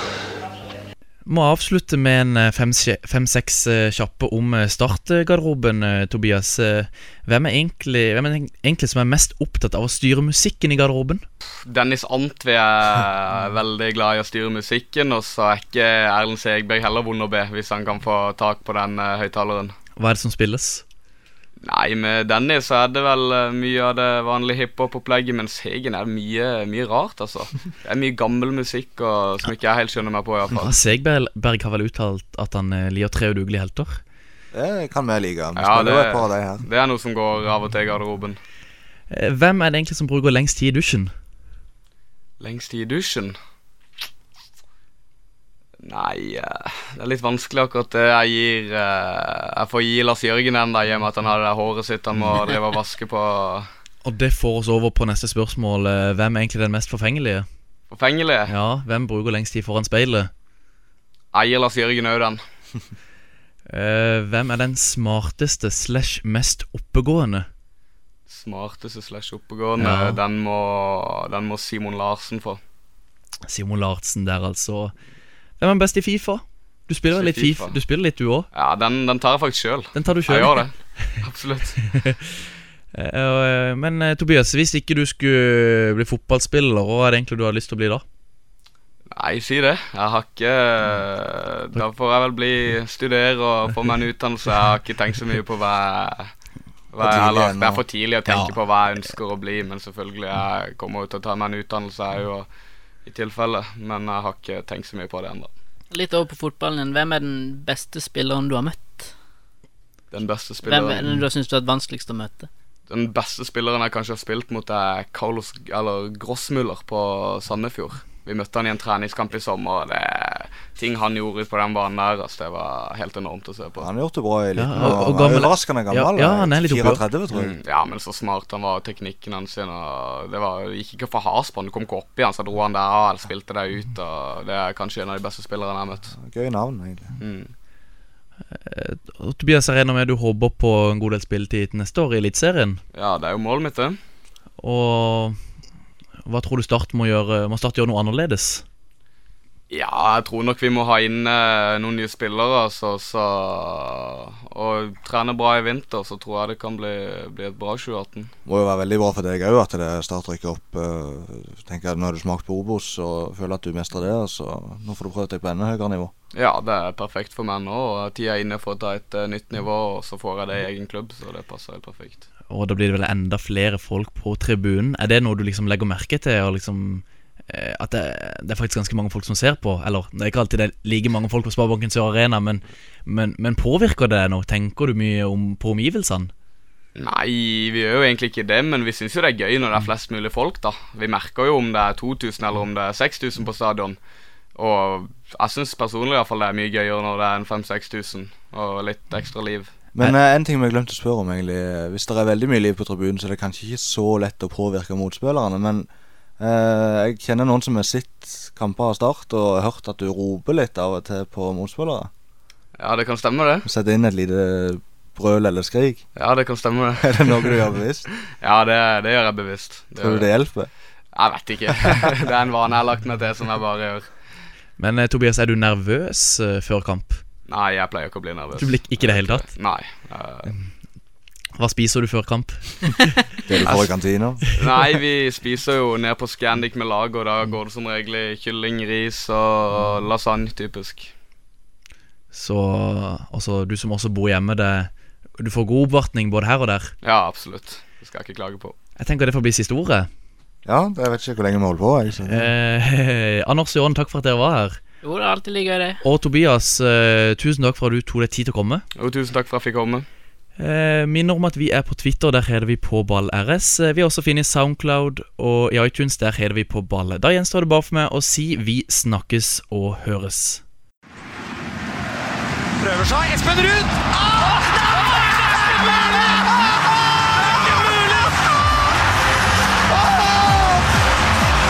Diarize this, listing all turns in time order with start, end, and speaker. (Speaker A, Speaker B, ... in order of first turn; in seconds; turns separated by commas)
Speaker A: 1.3-11.2, Speaker B: 11.7-19.7, Speaker A: 20.0-20.8, Speaker B: 21.6-30.8, Speaker A: 30.6-34.0, Speaker C: 34.5-36.6, Speaker B: 35.6-38.4, Speaker A: 39.1-41.1, Speaker B: 42.4-43.4, Speaker B: 45.8-53.7, Speaker A: 54.0-57.5, Speaker B: 57.9-58.5, Speaker A: 58.5-60.3, Speaker B: 61.3-62.4, Speaker A: 63.7-67.5, Speaker B: 68.3-72.6, Speaker A: 69.8-70.2, Speaker A: 73.5-74.9, Speaker A: 75.6-78.5, Speaker B: 77.1-77.8, Speaker B: 78.5-81.8, Speaker A: 80.0-81.1, Speaker A: 82.0-82.3, Speaker A: 82.9-88.0, Speaker B: 89.1-96.3, Speaker B: 96.9-102.5, Speaker C: 97.0-97.8, Speaker B: 103.1-105.5, Speaker D: 105.9-109.1, Speaker B: 110.1-111.2, Speaker D: 110.6-112.5, Speaker B: 112.9-123.9, Speaker C: 123.8-127.6, Speaker A: 124.6-127.0, Speaker B: 127.3-136.2, Speaker C: 136.1-137.1, Speaker B: 137.2-137.5, Speaker A: 138.5-142.8, Speaker B: 142.9-144.0, Speaker A: 144.6-145.4, Speaker A: 146.2-148.6, Speaker B: 149.7-158.3, Speaker C: 158.5-166.1, Speaker B: 166.3-172.3, Speaker A: 172.5-186.3, Speaker B: 187.0-194.0, Speaker B: 194.6-199.7, Speaker C: 199.9-205.9, Speaker C: 206.4-212.1, Speaker B: 212.8-213.7, Speaker C: 213.7-216.0, Speaker B: 216.2-217.7, Speaker C: 217.0-218.1, Speaker B: 218.3-220.3, Speaker C: 220.0-220.7, Speaker B: 221.2-224.1, Speaker A: 224.8-227.2, Speaker B: 227.5-230.5, Speaker A: 228.6-229.5, Speaker A: 231.6-233.3, Speaker C: 233.5-234.4, Speaker B: 233.6-233.9, Speaker B: 234.5-241.1, Speaker A: 242.3-246.9, Speaker B: 247.0-248.8, Speaker A: 249.0-250.1, Speaker C: 250.7-252.5, Speaker A: 252.3-254.8, Speaker D: 255.0-256.0, Speaker A: 256.0-258.8, Speaker B: 259.0-260.1, Speaker A: 260.6-270.6, Speaker E: 272.8-278.4, Speaker E: 279.9-280.9